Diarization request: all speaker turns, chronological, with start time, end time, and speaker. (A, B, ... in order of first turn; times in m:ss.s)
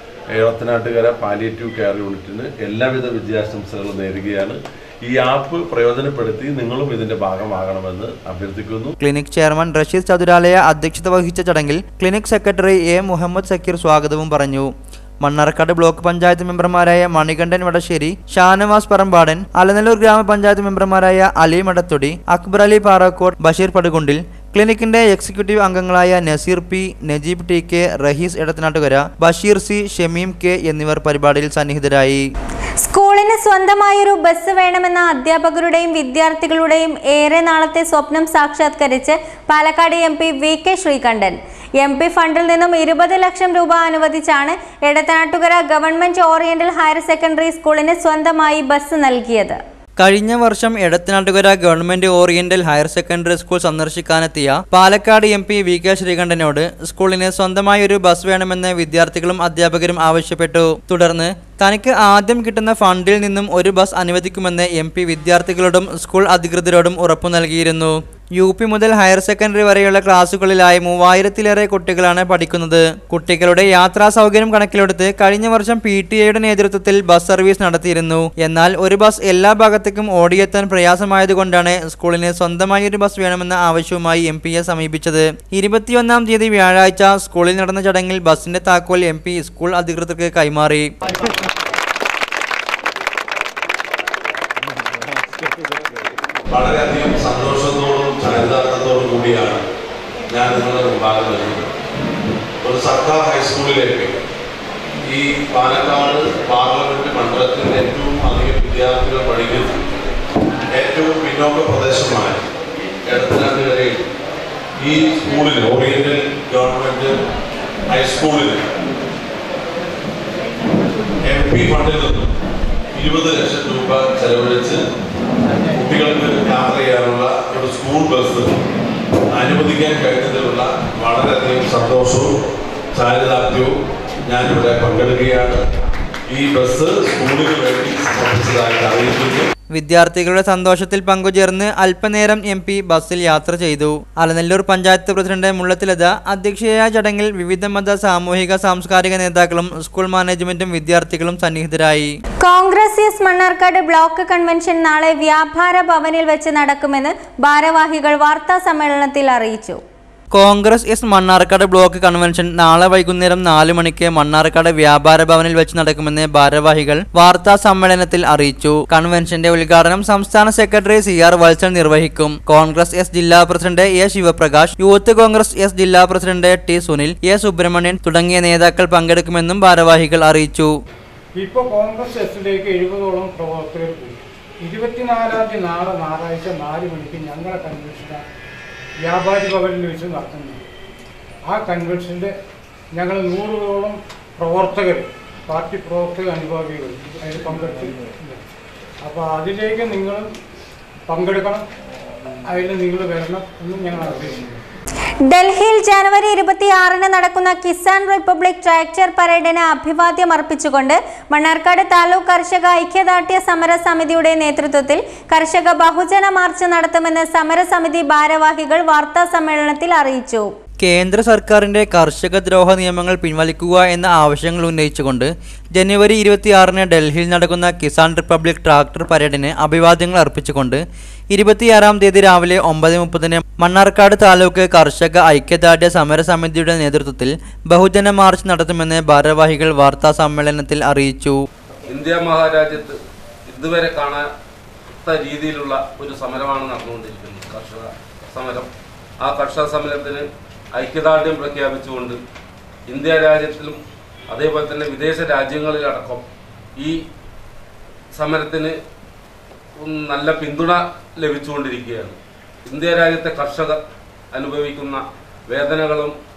0:00.4-0:08.9 A
0:09.0-0:14.7 B
0:15.2-0:32.2 B
0:32.8-0:49.6 C
0:50.0-1:30.8 B
1:36.5-1:39.6 A
1:40.3-1:41.6 A
1:42.6-1:44.1 A
1:45.1-1:49.7 A
1:50.7-1:52.4 A
1:53.0-1:54.0 A
1:54.8-1:57.1 A
1:57.9-1:58.6 A
2:01.2-2:02.3 A
2:02.9-2:04.8 A
2:05.7-2:08.6 A
2:09.3-2:12.3 A
2:12.9-2:13.7 A
2:14.2-2:15.6 A
2:16.3-2:19.5 A
2:19.7-2:32.1 B
2:32.4-2:39.8 C
2:40.3-3:00.7 B
3:01.3-3:08.2 D
3:09.0-3:10.6 D
3:11.4-3:12.3 D
3:12.9-3:18.4 D
3:19.0-3:20.3 D
3:21.1-3:21.6 D
3:22.4-3:24.5 D
3:25.2-3:40.5 C
3:40.8-3:50.8 B
3:51.3-4:01.4 B
4:01.9-4:04.3 E
4:04.9-4:08.7 E
4:09.2-4:12.2 E
4:12.9-4:13.8 E
4:14.3-4:16.2 E
4:18.1-4:18.8 E
4:19.8-4:23.8 E
4:24.3-4:26.2 E